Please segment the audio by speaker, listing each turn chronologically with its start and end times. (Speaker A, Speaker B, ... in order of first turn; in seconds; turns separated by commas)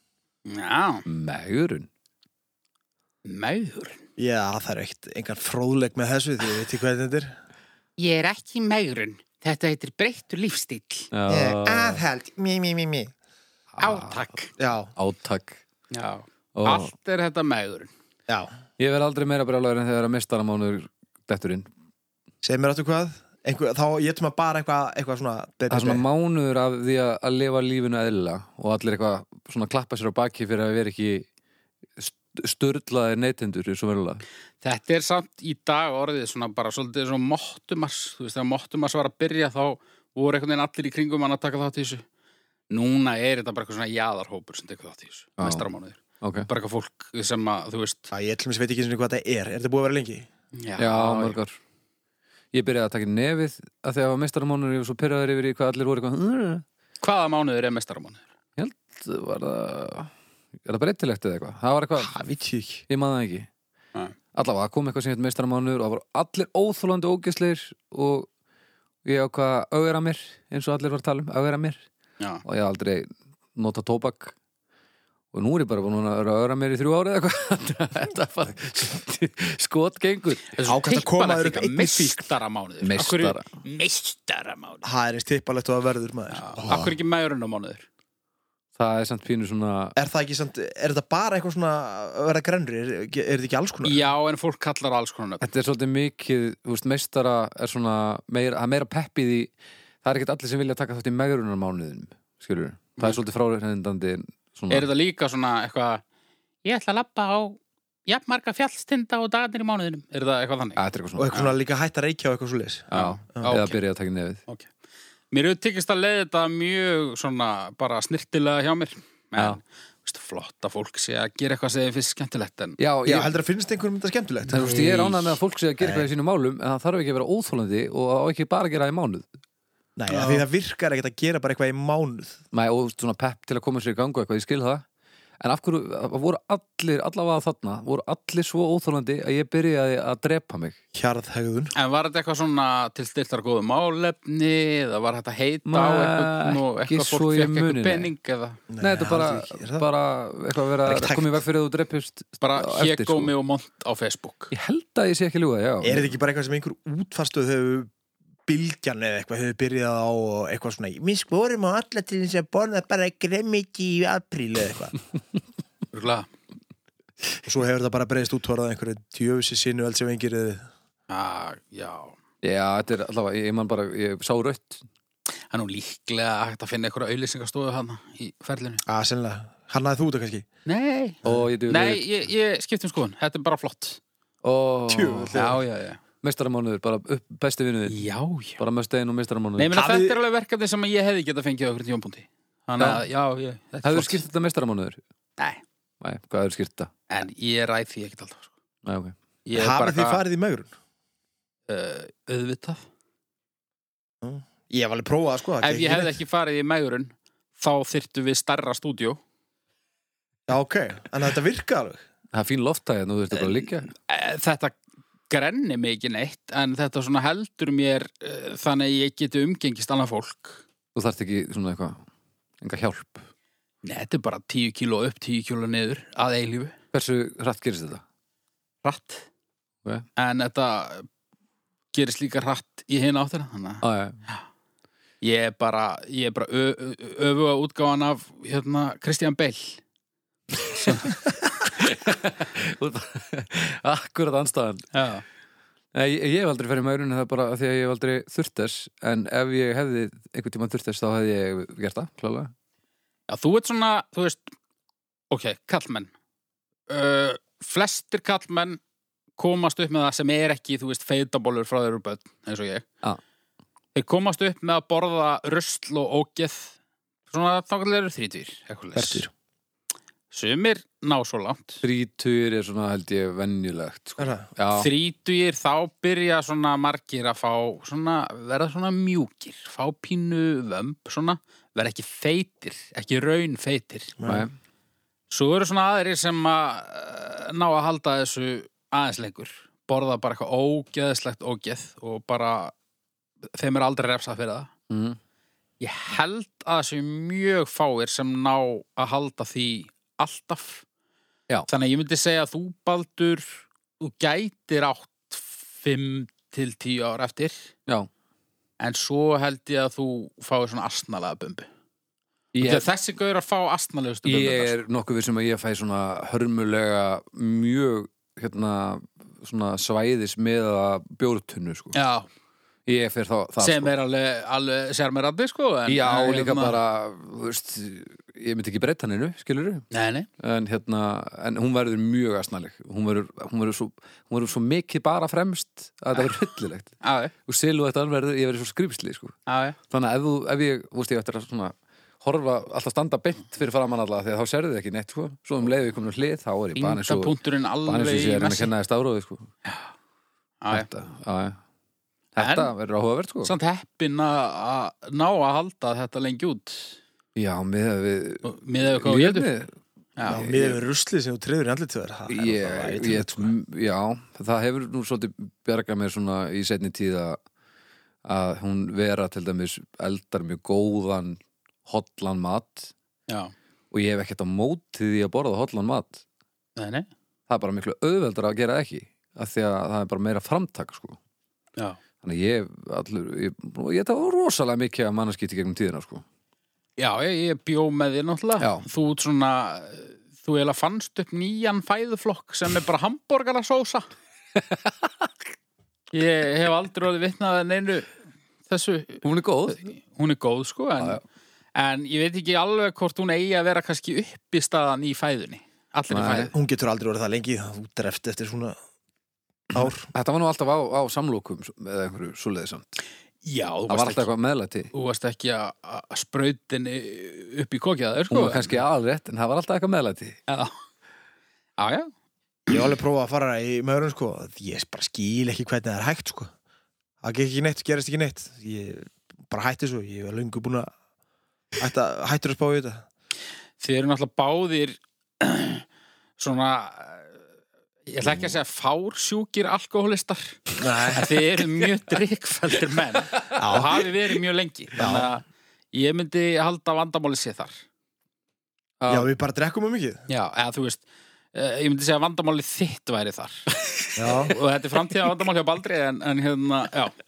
Speaker A: 0.5-1.1, Speaker B: 1.1-1.9, Speaker A: 3.3-4.0, Speaker C: 4.2-7.3, Speaker A: 8.0-11.1, Speaker B: 11.1-12.0, Speaker C: 11.3-13.1, Speaker B: 13.8-14.2, Speaker A: 13.8-14.5, Speaker C: 14.6-14.9, Speaker B: 15.0-15.6, Speaker A: 15.9-17.9, Speaker B: 16.6-16.9, Speaker B: 18.8-21.7, Speaker C: 22.4-26.0, Speaker B: 25.7-31.3, Speaker B: 32.0-34.2, Speaker A: 34.6-42.0, Speaker A: 42.7-48.1, Speaker B: 45.4-45.7, Speaker B: 46.2-46.5, Speaker C: 48.1-50.3, Speaker A: 50.6-51.4, Speaker B: 50.8-51.6, Speaker B: 52.5-56.6, Speaker A: 57.0-58.3, Speaker B: 58.6-60.1, Speaker B: 60.6-62.2, Speaker C: 62.0-62.8, Speaker B: 62.9-63.5, Speaker B: 64.3-68.3, Speaker B: 69.0-71.8, Speaker B: 72.5-74.3, Speaker B: 75.3-80.6, Speaker A: 80.5-84.8, Speaker C: 80.7-82.2, Speaker B: 82.8-83.5, Speaker C: 84.8-86.9, Speaker A: 86.3-87.9, Speaker B: 88.8-90.0, Speaker C: 90.0-94.0, Speaker A: 93.8-95.4, Speaker B: 95.4-99.5, Speaker B: 100.0-104.9, Speaker A: 104.7-106.0, Speaker A: 106.6-110.8, Speaker B: 110.8-111.3, Speaker C: 111.2-113.5, Speaker B: 112.9-114.4, Speaker A: 112.9-113.8, Speaker A: 115.3-122.8, Speaker B: 122.8-123.3, Speaker C: 123.0-124.7, Speaker B: 124.5-129.3, Speaker A: 124.5-125.4, Speaker C: 125.8-126.1, Speaker C: 130.0-132.4, Speaker A: 130.1-130.4, Speaker B: 132.5-134.8, Speaker B: 135.4-140.8, Speaker C: 140.9-141.7, Speaker A: 141.8-148.6, Speaker B: 145.7-148.1, Speaker C: 148.7-149.9, Speaker B: 148.8-153.3, Speaker C: 150.8-151.4, Speaker A: 152.4-154.5, Speaker B: 154.5-156.2, Speaker C: 155.8-157.9, Speaker C: 158.5-165.0, Speaker A: 165.9-166.3, Speaker C: 167.4-170.7, Speaker A: 171.1-172.2, Speaker B: 172.4-174.8, Speaker A: 175.5-178.8, Speaker C: 178.8-180.5, Speaker A: 180.7-184.0, Speaker B: 181.2-182.0, Speaker B: 184.4-185.4, Speaker C: 184.9-185.6, Speaker A: 185.3-186.0, Speaker B: 186.2-188.0, Speaker A: 187.9-188.6, Speaker B: 188.6-189.8, Speaker A: 189.6-194.2, Speaker C: 189.8-190.2, Speaker B: 192.8-193.0, Speaker B: 193.8-195.0, Speaker B: 196.0-196.9, Speaker A: 197.1-198.5, Speaker B: 198.8-199.2, Speaker A: 199.5-200.2, Speaker C: 199.6-200.7, Speaker A: 201.7-202.8, Speaker C: 204.2-206.2, Speaker A: 205.6-209.2, Speaker C: 210.5-212.0, Speaker B: 212.3-213.9, Speaker A: 213.9-214.8, Speaker A: 215.3-220.6, Speaker B: 220.9-222.0, Speaker B: 222.6-223.3, Speaker A: 223.8-226.8, Speaker B: 226.9-228.0, Speaker A: 228.8-229.3, Speaker A: 230.2-231.1, Speaker A: 231.9-234.4, Speaker B: 233.8-234.2, Speaker A: 235.2-239.8, Speaker A: 240.7-241.2, Speaker B: 241.7-244.9, Speaker A: 244.9-245.2, Speaker B: 245.9-252.5, Speaker A: 253.3-254.5, Speaker A: 255.3-256.1, Speaker A: 256.9-258.8, Speaker A: 259.4-262.9, Speaker A: 263.9-266.7, Speaker A: 267.3-269.3, Speaker C: 268.9-269.3, Speaker A: 270.3-271.8, Speaker B: 271.8-274.9, Speaker C: 274.2-274.5, Speaker A: 274.7-284.2, Speaker C: 284.2-284.5, Speaker B: 284.2-284.5, Speaker A: 285.3-292.8, Speaker A: 293.5-294.7, Speaker B: 294.9-295.2, Speaker A: 295.8-300.8, Speaker A: 301.7-307.7, Speaker A: 308.8-311.7, Speaker B: 312.5-312.9, Speaker A: 312.6-314.8, Speaker B: 314.2-321.9, Speaker A: 321.9-322.3, Speaker B: 322.9-323.9, Speaker A: 323.6-326.8, Speaker B: 325.9-329.9, Speaker A: 329.9-330.3, Speaker B: 330.4-336.9, Speaker A: 337.0-337.3, Speaker B: 337.5-339.4, Speaker A: 339.5-339.8, Speaker B: 339.9-349.5, Speaker A: 346.8-348.7, Speaker A: 349.6-349.9, Speaker A: 350.6-350.9, Speaker B: 350.7-351.6, Speaker B: 352.4-353.5, Speaker A: 352.4-352.7, Speaker A: 353.4-357.0, Speaker B: 357.4-359.8, Speaker A: 358.4-359.5, Speaker A: 360.2-360.5, Speaker B: 360.3-360.8, Speaker C: 360.3-363.5, Speaker B: 362.3-367.4, Speaker B: 368.2-372.9, Speaker A: 373.3-373.5, Speaker B: 373.9-376.2, Speaker A: 376.8-377.1, Speaker B: 377.5-381.2, Speaker B: 382.2-386.2, Speaker A: 387.0-394.1, Speaker B: 388.6-388.9, Speaker B: 394.6-395.3, Speaker A: 396.1-398.1, Speaker A: 398.7-401.2, Speaker B: 399.2-399.8, Speaker A: 401.8-406.5, Speaker B: 406.1-406.5, Speaker C: 406.5-408.8, Speaker C: 409.7-410.1, Speaker B: 409.7-413.0, Speaker A: 413.4-414.3, Speaker B: 413.9-414.9, Speaker A: 414.9-418.8, Speaker B: 418.3-420.4, Speaker A: 420.5-420.7, Speaker A: 421.8-422.1, Speaker C: 422.7-426.5, Speaker C: 427.2-430.9, Speaker C: 431.8-433.1, Speaker A: 433.8-435.9, Speaker A: 436.4-437.3, Speaker A: 438.1-447.8, Speaker C: 440.8-441.3, Speaker B: 443.4-443.9, Speaker C: 443.6-444.0, Speaker C: 445.0-445.3, Speaker B: 449.0-449.3, Speaker C: 449.1-450.2, Speaker A: 450.3-453.7, Speaker C: 454.2-454.6, Speaker A: 454.2-457.2